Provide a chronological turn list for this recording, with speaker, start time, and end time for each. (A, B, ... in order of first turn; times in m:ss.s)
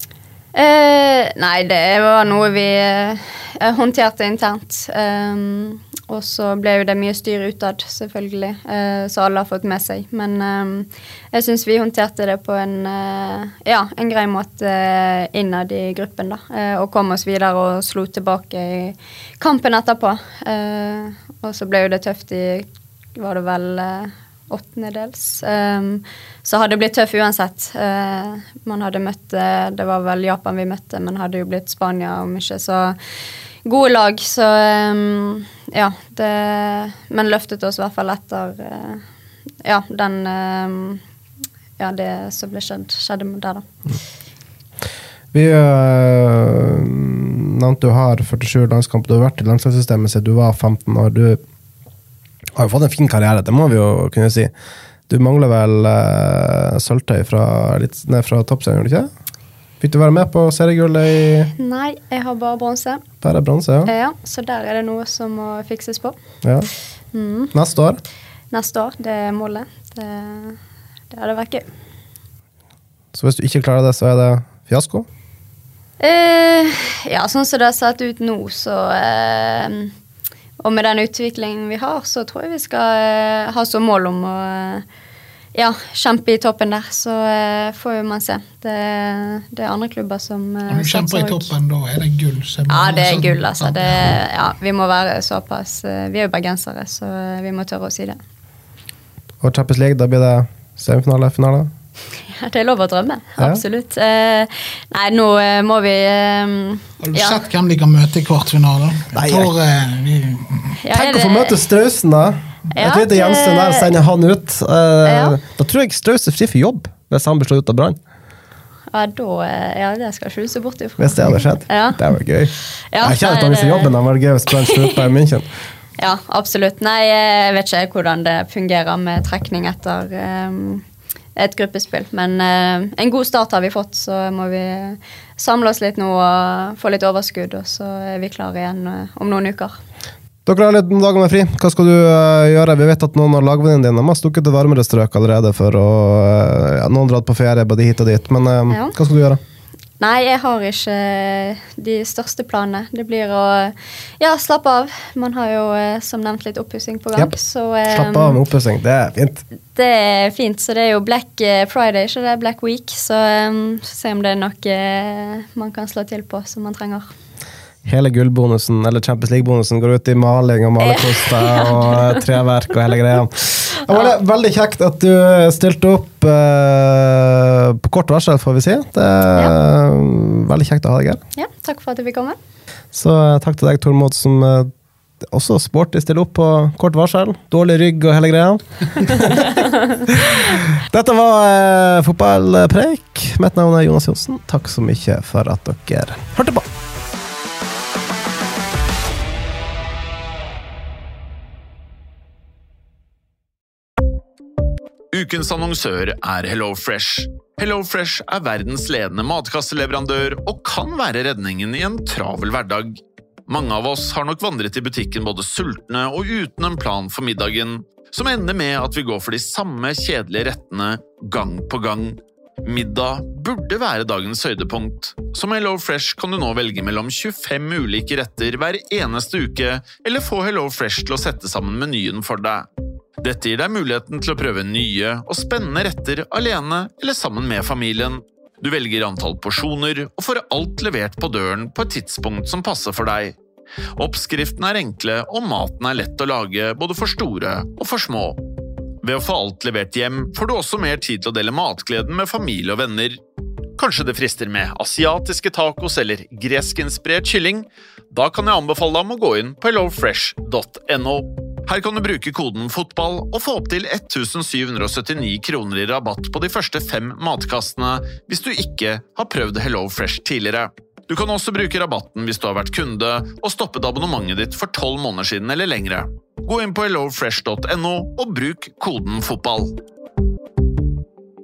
0:00.5-0:32.9 A
0:33.6-0:39.0 A
0:39.6-0:41.0 A
0:41.8-0:43.6 A
0:45.3-0:51.4 B
0:52.6-0:54.5 B
0:55.1-0:59.1 B
0:59.8-1:01.5 B
1:01.6-1:03.0 A
1:03.2-1:03.9 B
1:03.8-1:06.1 A
1:06.4-1:06.7 B
1:07.1-1:07.5 A
1:07.5-1:08.0 B
1:08.5-1:10.6 A
1:11.1-1:11.6 A
1:13.1-1:15.1 B
1:16.0-1:19.9 A
1:20.6-1:24.8 A
1:25.5-1:31.5 A
1:30.7-1:34.1 C
1:32.7-1:38.2 A
1:39.4-1:41.7 B
1:42.3-1:47.4 A
1:47.0-1:50.7 C
1:49.1-1:49.5 B
1:50.8-1:51.6 A
1:50.9-1:58.0 B
1:52.7-1:53.9 A
1:55.0-1:55.4 A
1:58.9-2:02.0 A
2:01.0-2:05.4 B
2:02.9-2:03.9 A
2:04.6-2:05.0 A
2:06.0-2:10.8 A
2:11.4-2:19.8 A
2:20.4-2:29.4 B
2:28.7-2:28.9 A
2:30.0-2:38.4 A
2:37.9-2:39.4 B
2:39.7-2:47.1 A
2:47.8-3:01.2 B
2:50.8-2:52.2 A
3:01.4-3:02.4 A
3:02.9-3:16.7 B
3:25.1-3:52.6 D
3:53.2-4:03.4 D
4:04.0-4:08.4 D
4:09.0-4:13.2 D
4:13.8-4:39.7 D